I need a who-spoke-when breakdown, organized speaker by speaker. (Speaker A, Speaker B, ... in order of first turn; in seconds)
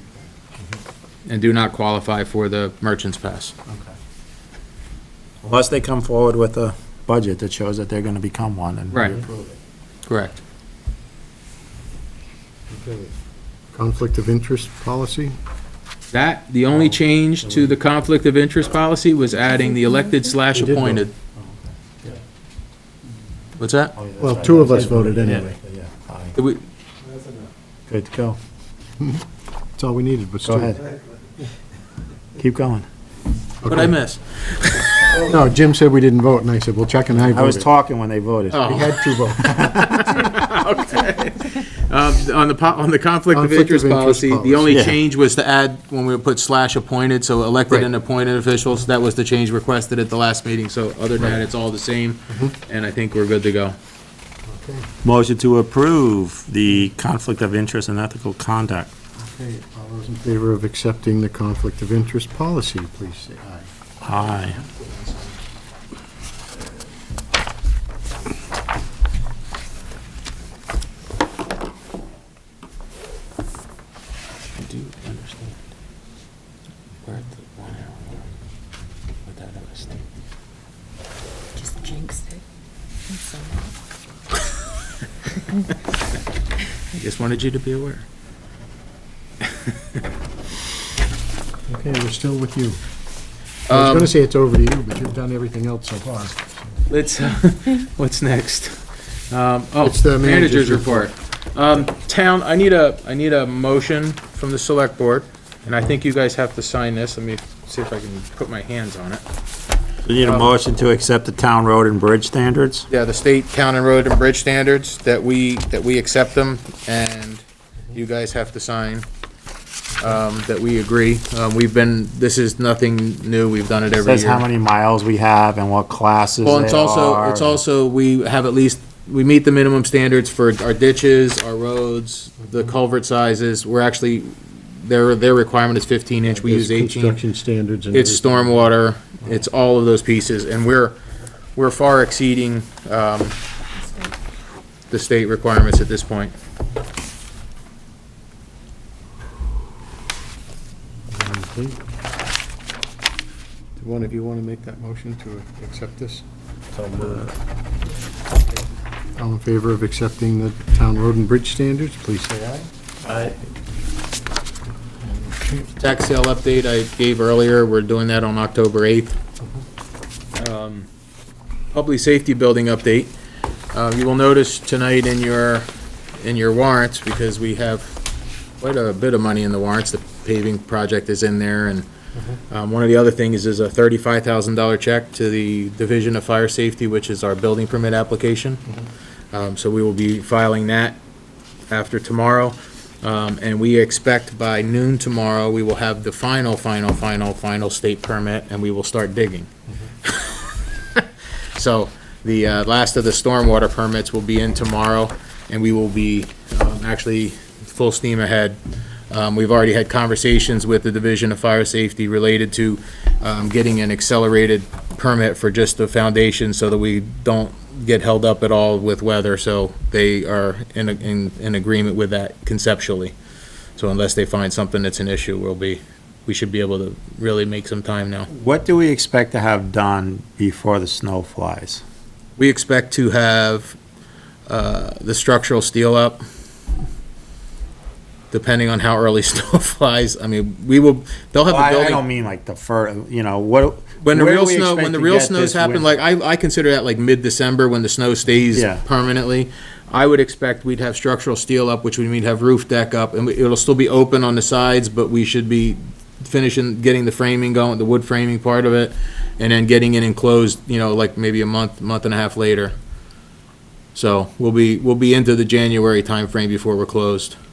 Speaker A: 1.3-3.5, 8.9-9.2, 10.1-10.4, 16.1-21.1, 23.6-23.9, 26.4-26.6, 33.6-35.1, 38.5-53.8, 74.6-75.6, 77.0-78.2, 79.2-79.9, 86.9-88.0, 89.6-90.0, 93.7-94.1, 96.9-109.2, 110.2-110.5, 112.9-119.0, 120.0-124.4, 126.4-137.2, 137.9-141.0, 141.6-143.3, 144.9-146.3, 165.8-169.2, 170.3-170.9, 171.7-173.1, 173.7-178.0, 178.6-181.9, 182.5-188.6, 189.3-191.0, 191.7-199.5, 200.0-208.6, 209.1-223.1, 223.8-228.3, 232.4-233.8, 234.5-236.2, 238.3-242.0, 244.0-262.7, 263.9-267.4
Speaker B: 5.4-9.4, 21.4-22.2, 23.9-26.4, 27.9-28.4, 30.4-30.8, 32.4-32.8, 37.2-40.0, 44.7-45.0, 55.0-58.9, 64.0-64.6, 110.0-112.9, 124.0-127.6, 156.7-157.3, 163.1-163.3, 228.3-231.8, 241.5-245.9, 248.5-248.8
Speaker C: 9.0-9.4, 12.7-13.1, 13.7-15.3, 20.5-21.0, 24.2-25.6, 29.8-30.9, 33.6-34.0, 35.1-37.7, 38.6-39.5, 43.3-44.8, 52.3-52.5, 54.5-54.9, 59.2-63.7, 64.5-65.3, 91.7-92.8, 93.7-96.8, 99.8-101.1, 136.3-138.7, 151.1-151.8, 153.8-156.2, 156.9-157.3, 159.2-162.7, 165.0-165.6
Speaker D: 81.5-82.4, 83.1-83.7, 143.8-144.1